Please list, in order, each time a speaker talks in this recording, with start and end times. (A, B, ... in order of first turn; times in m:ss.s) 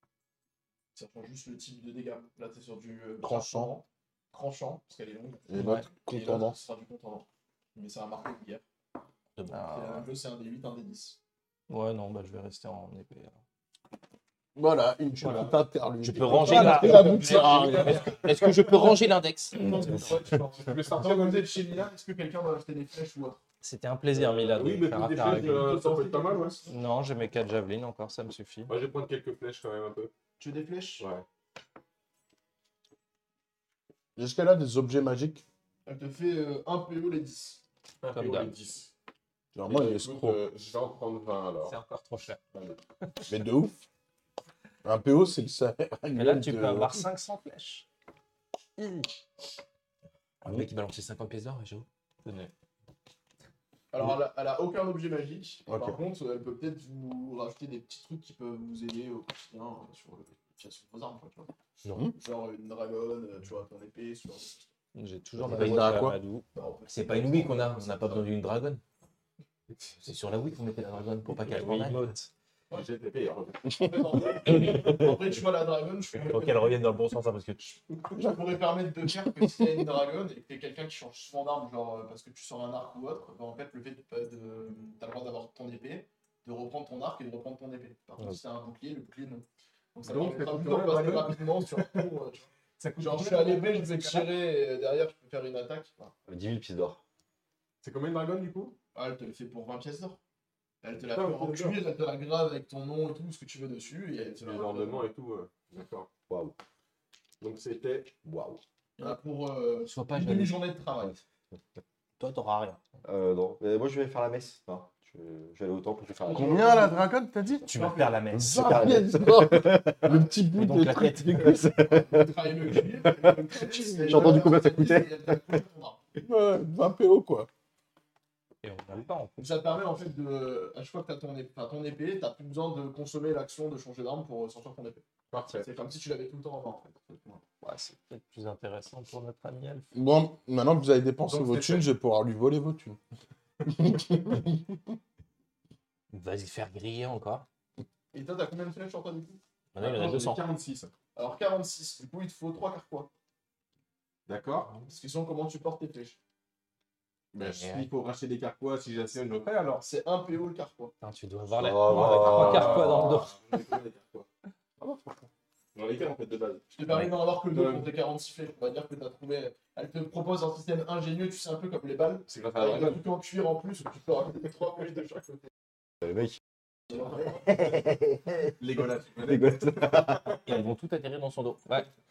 0:00.9-0:08.6 A
0:03.2-0:03.7 B
0:05.5-0:06.6 B
0:09.4-0:09.6 C
0:09.5-0:10.0 D
0:09.6-0:11.2 A
0:11.7-0:13.4 D
0:14.5-0:18.6 B
0:15.2-0:15.5 D
0:16.0-0:19.8 C
0:16.3-0:18.2 D
0:16.7-0:17.8 A
0:17.2-0:18.0 E
0:19.6-0:23.4 A
0:19.9-0:21.6 E
0:23.6-0:25.7 D
0:24.2-0:26.6 E
0:25.2-0:26.7 A
0:26.7-0:28.7 D
0:28.7-0:30.1 E
0:30.4-0:31.1 A
0:31.0-0:31.2 E
0:34.2-0:35.4 B
0:35.8-0:37.6 A
0:38.0-0:38.9 E
0:38.1-0:38.5 D
0:39.5-0:40.4 B
0:39.6-0:41.8 E
0:41.6-0:42.4 D
0:43.3-0:43.7 B
0:44.8-0:47.0 B
0:46.1-0:47.8 D
0:48.8-0:49.1 D
0:50.4-0:51.9 C
0:52.2-0:52.5 D
0:53.9-1:01.5 A
0:55.7-0:56.0 B
1:02.1-1:04.6 A
1:04.9-1:06.4 D
1:05.4-1:06.1 C
1:05.5-1:06.2 B
1:06.5-1:08.3 A
1:06.9-1:08.8 C
1:10.0-1:12.1 C
1:11.4-1:12.3 D
1:12.7-1:13.7 E
1:13.7-1:16.8 A
1:16.2-1:17.6 C
1:17.6-1:36.1 A
1:30.0-1:32.0 E
1:33.0-1:34.2 E
1:36.2-1:37.0 F
1:37.8-1:38.8 E
1:38.9-1:40.2 A
1:40.8-1:45.1 A
1:41.0-1:41.8 E
1:44.2-1:46.1 E
1:46.3-1:46.5 F
1:47.4-1:48.2 E
1:48.2-1:48.6 F
1:49.0-1:51.2 A
1:49.9-1:50.6 C
1:52.2-1:52.8 C
1:53.0-1:56.6 F
1:56.2-1:57.1 A
1:56.3-1:57.7 B
1:57.6-1:59.0 C
1:57.6-1:58.3 A
1:58.3-2:01.6 B
1:58.4-2:00.3 F
2:00.5-2:01.7 C
2:01.3-2:05.6 F
2:01.7-2:06.0 A
2:06.2-2:07.5 B
2:08.6-2:09.4 D
2:09.4-2:17.4 A
2:15.3-2:15.7 E
2:17.6-2:19.9 D
2:19.9-2:23.0 B
2:21.3-2:21.8 E
2:23.7-2:24.7 B
2:26.1-2:27.4 C
2:28.1-2:29.4 A
2:29.7-2:30.4 C
2:29.8-2:30.9 E
2:31.1-2:33.1 A
2:34.3-2:34.8 E
2:34.8-2:36.2 A
2:37.3-2:39.8 E
2:37.4-2:37.9 C
2:39.8-2:40.9 A
2:41.0-2:43.3 D
2:41.6-2:43.2 F
2:41.9-2:44.2 E
2:41.9-2:42.4 C
2:44.8-2:45.2 F
2:45.7-2:46.6 E
2:46.7-2:55.4 A
2:47.5-2:47.9 E
2:52.3-2:53.1 E
2:57.3-2:58.5 F
2:58.6-3:00.2 E
2:59.2-3:00.4 F
3:00.4-3:01.7 C